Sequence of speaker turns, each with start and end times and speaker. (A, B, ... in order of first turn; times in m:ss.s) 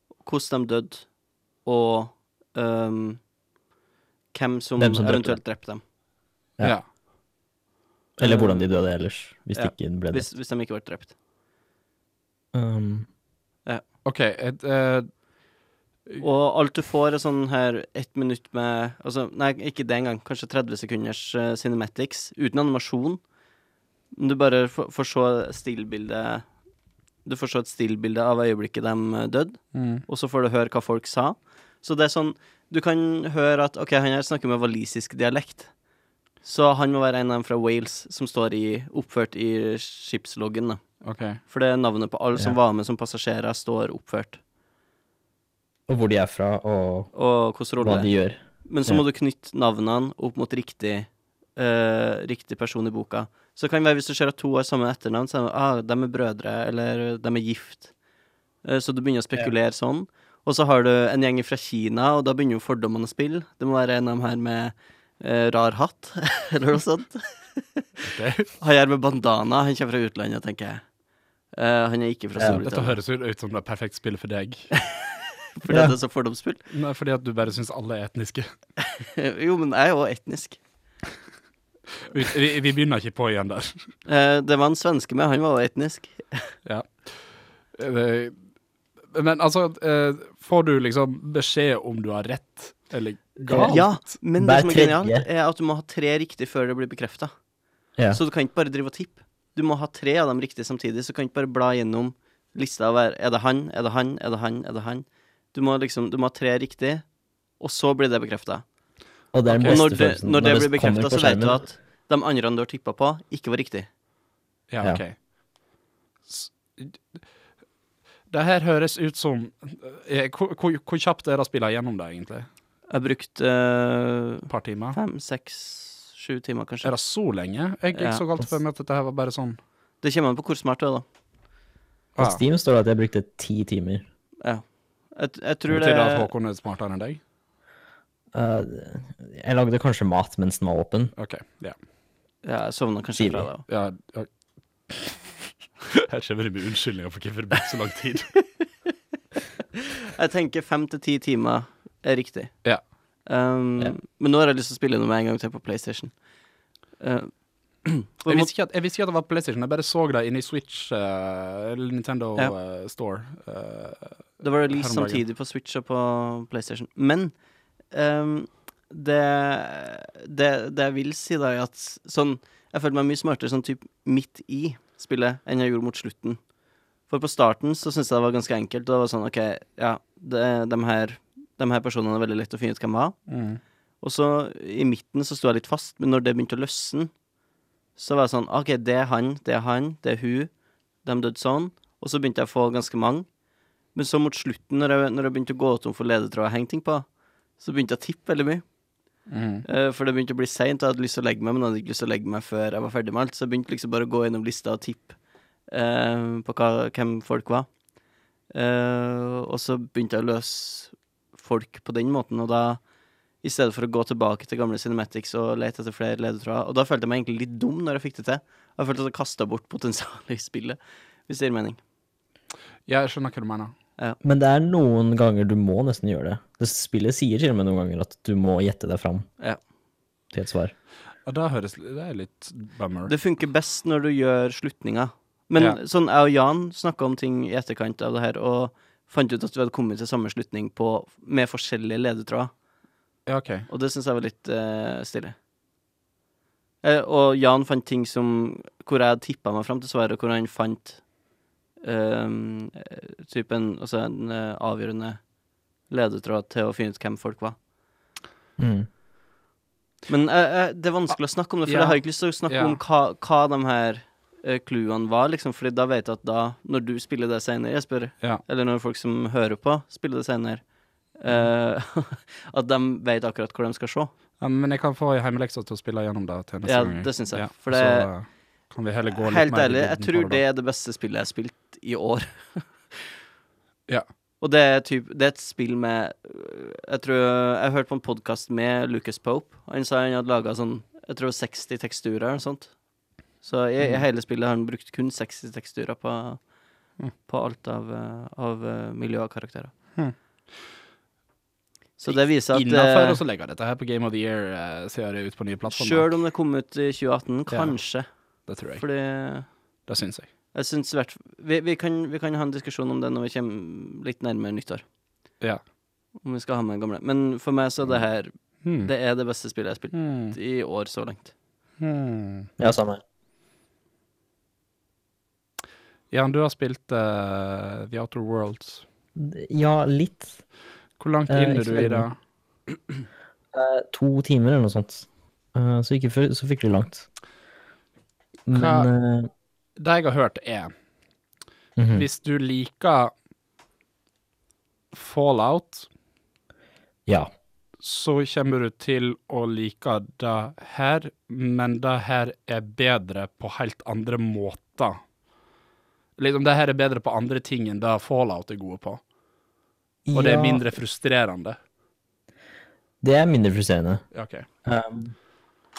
0:00.2-0:01.1 A
0:01.6-0:03.2 A
0:04.3-0:05.8 A
0:04.8-0:05.4 B
0:08.2-0:10.3 B
0:08.2-0:08.7 A
0:09.5-0:11.1 A
0:12.5-0:13.1 B
0:14.0-0:15.1 C
0:16.2-0:23.2 A
0:24.1-0:26.5 A
0:27.2-0:35.7 A
0:29.7-0:30.0 C
0:36.4-0:40.8 A
0:41.0-0:41.4 C
0:41.5-0:44.4 A
0:45.9-0:47.1 B
0:47.1-0:48.1 A
0:47.8-0:49.0 B
0:48.6-0:57.9 A
0:58.6-1:08.1 A
1:08.0-1:08.5 C
1:08.6-1:10.8 A
1:11.5-1:13.0 A
1:12.6-1:14.7 C
1:15.6-1:16.6 A
1:16.7-1:18.5 C
1:18.8-1:20.6 A
1:22.1-1:23.9 C
1:24.1-1:26.5 A
1:26.6-1:28.4 C
1:29.1-1:34.0 C
1:33.5-1:35.3 B
1:33.5-1:37.3 A
1:38.1-1:47.0 A
1:47.6-1:48.6 A
1:49.3-1:51.6 B
1:49.5-1:49.9 C
1:49.6-1:53.9 A
1:54.7-1:55.2 C
1:56.3-1:57.0 C
1:58.3-2:02.5 C
2:02.9-2:06.9 A
2:04.5-2:05.0 C
2:06.8-2:09.6 C
2:07.9-2:08.2 A
2:10.0-2:11.0 A
2:12.2-2:14.0 B
2:15.2-2:16.3 A
2:15.7-2:17.2 C
2:18.3-2:21.1 B
2:21.2-2:21.8 C
2:22.4-2:23.6 A
2:23.2-2:23.5 B
2:23.7-2:24.3 C
2:24.9-2:25.2 C
2:25.8-2:28.3 C
2:30.0-2:32.6 A
2:33.3-2:36.2 A
2:37.0-2:38.5 A
2:38.3-2:45.2 C
2:44.4-2:47.3 A
2:47.9-2:56.4 A
2:57.1-3:03.2 A
3:03.3-3:03.6 C
3:04.0-3:07.1 A
3:08.0-3:10.5 A
3:11.0-3:13.3 A
3:14.0-3:17.1 A
3:17.6-3:18.6 A
3:19.3-3:19.7 C
3:19.7-3:25.1 A
3:25.7-3:27.7 A
3:28.5-3:32.8 A
3:33.4-3:41.8 A
3:42.9-3:43.7 C
3:44.2-3:49.3 B
3:50.3-3:50.7 B
3:51.3-3:53.1 C
3:53.1-4:02.5 A
4:03.3-4:03.7 C
4:03.7-4:05.4 A
4:06.8-4:11.0 A
4:11.8-4:15.2 A
4:15.9-4:17.6 A
4:18.6-4:18.9 B
4:20.1-4:30.6 A
4:21.7-4:22.8 C
4:31.2-4:34.1 A
4:34.4-4:40.4 C
4:36.6-4:38.1 A
4:39.1-4:43.0 A
4:44.4-4:52.7 A
4:53.4-4:56.4 A
4:57.3-4:59.7 A
5:02.0-5:03.2 A
5:02.1-5:06.1 C
5:05.7-5:08.1 A
5:07.5-5:07.8 C
5:08.5-5:08.8 C
5:08.8-5:09.5 A
5:09.9-5:10.3 C
5:10.5-5:14.8 A
5:16.2-5:21.3 A
5:18.6-5:18.9 C
5:19.9-5:20.4 C
5:21.8-5:22.5 C
5:22.6-5:23.0 B
5:26.1-5:28.8 C
5:29.2-5:30.4 B
5:31.0-5:32.2 C
5:31.3-5:32.1 B
5:33.5-5:37.1 B
5:38.5-5:39.3 B
5:38.5-5:38.9 C
5:39.8-5:40.7 C
5:41.8-5:42.1 B
5:41.9-5:43.1 C
5:44.9-5:45.9 C
5:47.8-5:55.0 C
5:56.2-5:59.0 C
6:00.0-6:00.6 B
6:00.1-6:01.6 C
6:03.0-6:04.0 B
6:04.1-6:04.5 C
6:04.6-6:05.2 B